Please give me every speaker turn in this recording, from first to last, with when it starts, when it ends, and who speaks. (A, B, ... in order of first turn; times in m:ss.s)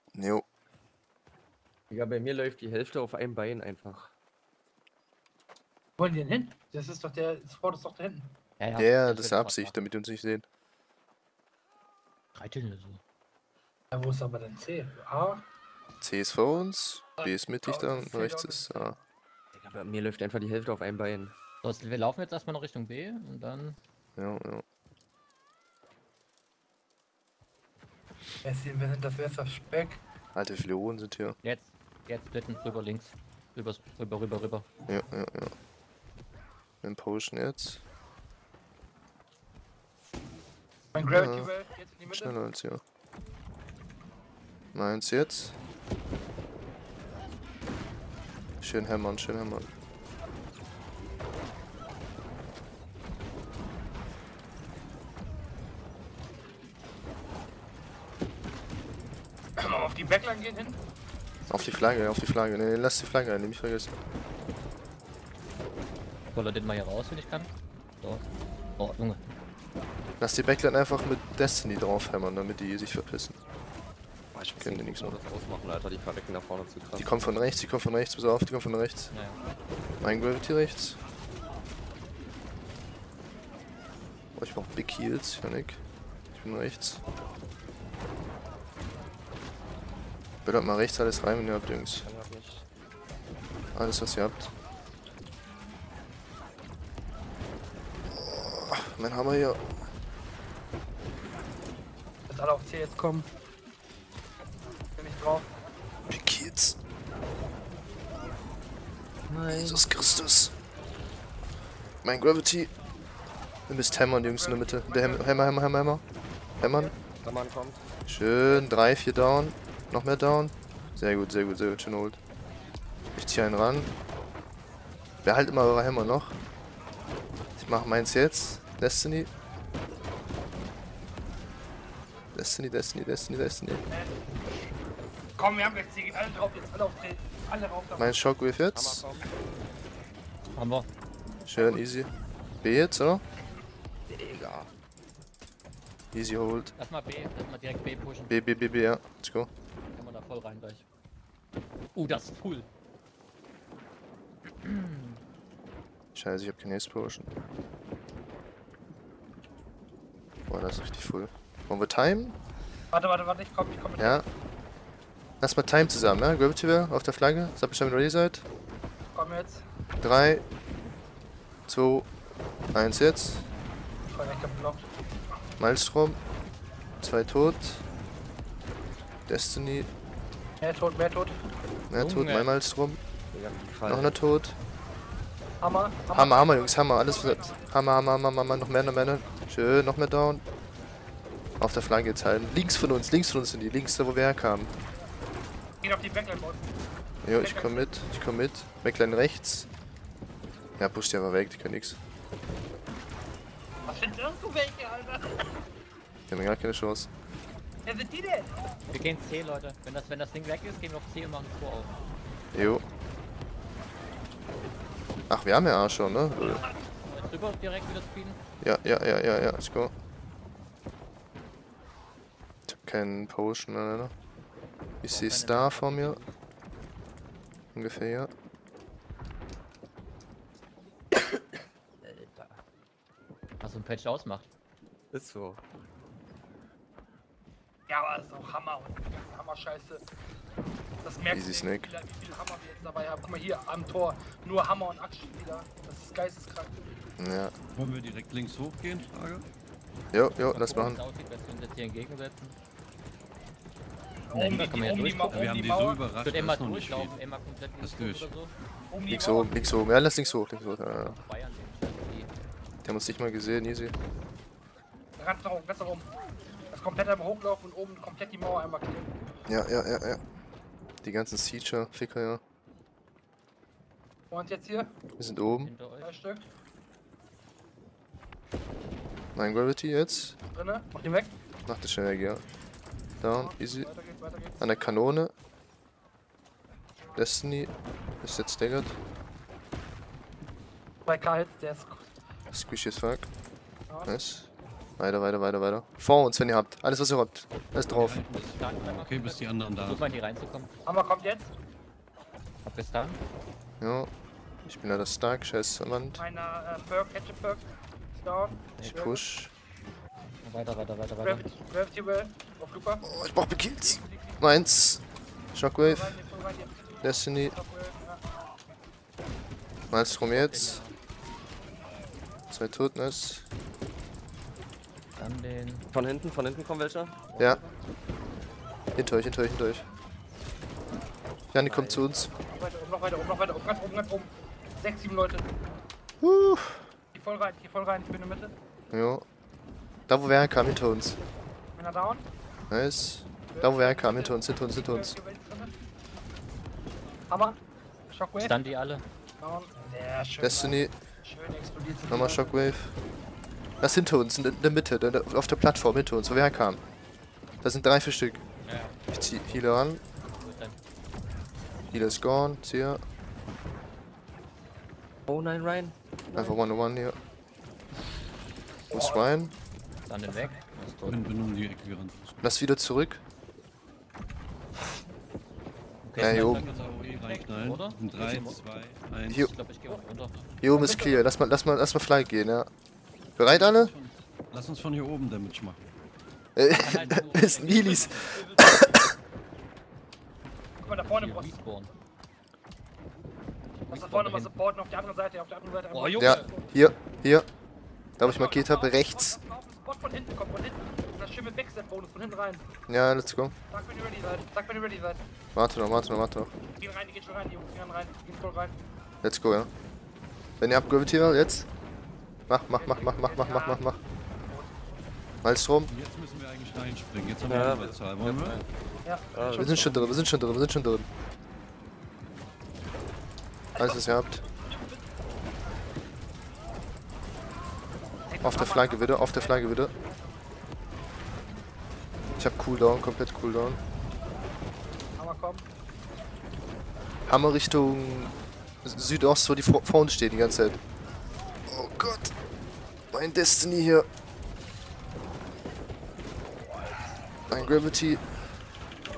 0:00.1-0:00.4 A
0:01.9-0:04.1 B
0:06.0-0:08.3 C
0:08.6-0:09.8 D
0:08.8-0:10.4 A
0:12.3-0:13.0 D
0:13.9-0:15.4 C
0:16.0-0:18.9 A
0:17.2-0:19.0 C
0:19.6-0:21.3 B
0:21.6-0:23.8 D
0:24.2-0:24.6 A
0:28.4-0:30.0 C
0:30.3-0:31.4 A
0:31.4-0:34.7 D
0:34.9-0:35.5 A
0:36.8-0:37.8 A
0:40.9-0:42.3 C
0:41.1-0:41.5 A
0:42.1-0:42.8 A
0:44.7-0:45.6 A
0:48.6-0:49.7 A
0:59.6-1:00.8 C
1:01.5-1:03.9 A
1:06.3-1:08.2 D
1:08.8-1:09.2 D
1:10.2-1:13.4 A
1:14.3-1:17.1 B
1:14.6-1:15.2 A
1:17.0-1:19.1 A
1:19.1-1:19.4 D
1:20.0-1:21.0 A
1:24.4-1:25.8 A
1:26.3-1:27.0 A
1:30.4-1:32.1 A
1:32.0-1:32.6 B
1:33.7-1:34.5 A
1:38.1-1:39.6 A
1:42.3-1:43.3 C
1:45.0-1:45.5 C
1:46.1-1:46.8 A
1:49.3-1:49.9 B
1:49.5-1:50.5 A
1:52.0-1:52.7 A
1:53.7-1:56.0 A
1:53.8-1:55.6 C
1:56.6-1:56.9 A
1:56.6-1:56.9 C
1:57.2-1:57.8 B
1:58.1-2:02.2 A
2:03.1-2:03.9 A
2:05.2-2:06.4 A
2:07.6-2:09.3 A
2:12.3-2:13.8 A
2:13.9-2:14.5 C
2:15.4-2:18.2 C
2:18.0-2:19.0 A
2:18.7-2:19.2 B
2:20.5-2:20.9 D
2:21.4-2:22.1 A
2:22.6-2:23.2 A
2:24.1-2:24.7 B
2:26.1-2:26.7 A
2:26.8-2:28.3 D
2:28.3-2:29.5 A
2:29.9-2:30.8 D
2:31.9-2:32.7 D
2:34.6-2:35.2 D
2:36.1-2:37.3 A
2:40.5-2:42.4 A
2:42.9-2:44.2 C
2:44.0-2:44.2 A
2:45.4-2:48.4 A
2:49.1-2:49.6 C
2:50.0-2:50.4 A
2:51.7-2:52.1 A
2:52.7-2:53.5 A
2:54.1-2:54.9 C
2:55.6-2:56.2 A
2:57.0-2:57.8 A
2:59.3-2:59.9 A
3:00.6-3:01.3 C
3:01.9-3:03.0 A
3:02.0-3:02.5 D
3:03.3-3:04.2 B
3:03.8-3:04.6 A
3:05.6-3:07.9 C
3:06.1-3:10.4 A
3:11.6-3:14.7 A
3:15.8-3:16.6 C
3:17.2-3:19.7 A
3:17.4-3:17.9 C
3:20.8-3:22.0 A
3:23.8-3:25.5 C
3:26.3-3:27.1 A
3:27.8-3:28.6 C
3:28.9-3:31.9 D
3:32.5-3:32.8 A
3:35.3-3:36.6 A
3:36.4-3:36.9 C
3:37.0-3:38.4 D
3:38.6-3:39.9 A
3:42.7-3:44.1 A
3:45.0-3:46.2 A
3:45.0-3:46.4 D
3:47.7-3:48.3 A
3:52.0-3:52.6 B
3:53.6-3:54.5 D
3:55.1-3:55.6 B
3:57.9-4:00.0 C
4:01.0-4:07.0 C
4:01.3-4:01.9 A
4:07.2-4:07.5 A
4:07.7-4:09.4 E
4:10.1-4:11.0 A
4:10.3-4:12.6 D
4:14.3-4:16.0 C
4:14.3-4:15.5 D
4:15.3-4:17.2 E
4:16.2-4:18.5 D
4:17.8-4:18.3 E
4:18.9-4:19.8 C
4:19.1-4:21.2 A
4:21.0-4:22.3 D
4:22.8-4:23.9 A
4:25.2-4:26.1 C
4:26.7-4:29.2 C
4:29.5-4:30.2 A
4:31.0-4:32.4 A
4:34.3-4:34.9 C
4:35.2-4:35.7 A
4:35.6-4:36.2 D
4:36.0-4:36.5 C
4:39.4-4:40.4 A
4:40.5-4:41.4 C
4:41.7-4:42.4 A
4:43.2-4:43.9 A
4:43.3-4:44.7 C
4:44.6-4:45.3 A
4:47.2-4:49.0 A
4:51.1-4:52.1 C
4:52.5-4:53.3 A
4:53.9-4:54.1 C
4:54.0-4:58.2 A
4:57.9-5:00.1 E
4:58.6-5:00.7 D
5:00.8-5:01.5 C
5:02.6-5:03.2 D
5:03.8-5:04.1 A
5:04.6-5:06.2 A
5:06.2-5:09.2 C
5:08.8-5:09.5 A
5:10.4-5:11.5 D
5:11.2-5:13.1 C
5:13.0-5:16.2 A
5:13.8-5:14.5 C
5:15.8-5:18.2 C
5:17.0-5:17.5 A
5:19.9-5:20.8 A
5:20.0-5:21.0 D
5:22.5-5:23.5 A
5:25.2-5:25.8 D
5:25.9-5:27.7 B
5:29.0-5:29.9 A
5:31.5-5:32.3 A
5:31.6-5:32.1 B
5:32.4-5:35.5 C
5:36.2-5:36.9 A
5:37.1-5:38.5 C
5:38.9-5:39.2 A
5:40.1-5:41.2 A
5:41.7-5:42.3 C
5:42.7-5:45.2 A
5:43.5-5:45.8 C
5:47.3-5:48.6 C
5:48.4-5:49.0 D
5:49.4-5:52.6 C
5:50.4-5:50.9 A
5:52.1-5:53.0 A
5:53.8-5:56.8 A
5:57.6-5:58.4 A
5:58.6-5:59.0 D
5:59.1-6:00.0 A
6:00.2-6:00.8 D
6:01.9-6:03.0 A
6:05.3-6:06.6 B
6:06.3-6:07.2 A
6:08.9-6:09.5 A
6:08.9-6:09.3 C
6:10.1-6:11.2 D
6:10.3-6:10.6 C
6:11.1-6:12.3 E
6:12.4-6:13.2 A
6:16.0-6:18.6 D
6:16.1-6:19.5 E
6:16.2-6:16.6 A
6:19.3-6:20.3 D
6:20.6-6:22.7 A
6:20.7-6:21.3 C
6:23.4-6:23.9 A
6:23.4-6:25.8 E
6:26.6-6:29.1 A
6:26.7-6:28.2 D
6:27.7-6:28.0 E
6:28.0-6:28.8 C
6:30.8-6:31.6 C
6:31.0-6:31.9 D
6:33.9-6:34.5 D
6:33.9-6:36.7 C
6:35.9-6:36.5 D
6:36.2-6:37.5 A
6:38.2-6:39.4 A
6:38.2-6:42.7 C
6:42.9-6:43.5 A
6:43.7-6:45.2 C
6:45.5-6:46.5 A
6:46.8-6:48.8 C
6:49.2-6:49.7 A
6:50.6-6:51.7 A
6:52.5-6:54.0 A
6:52.7-6:54.8 C
6:55.4-6:55.9 A
6:55.9-6:58.6 E
6:57.5-6:58.6 B
6:59.0-7:00.2 C
6:59.3-7:00.1 B
6:59.5-7:01.1 A
7:03.8-7:04.2 C
7:03.8-7:04.4 A
7:08.3-7:10.5 C
7:08.4-7:09.9 A
7:12.4-7:13.8 A
7:15.2-7:15.7 C
7:17.3-7:20.8 A
7:21.7-7:22.3 A
7:23.1-7:24.1 A
7:26.6-7:27.1 B
7:27.5-7:28.2 A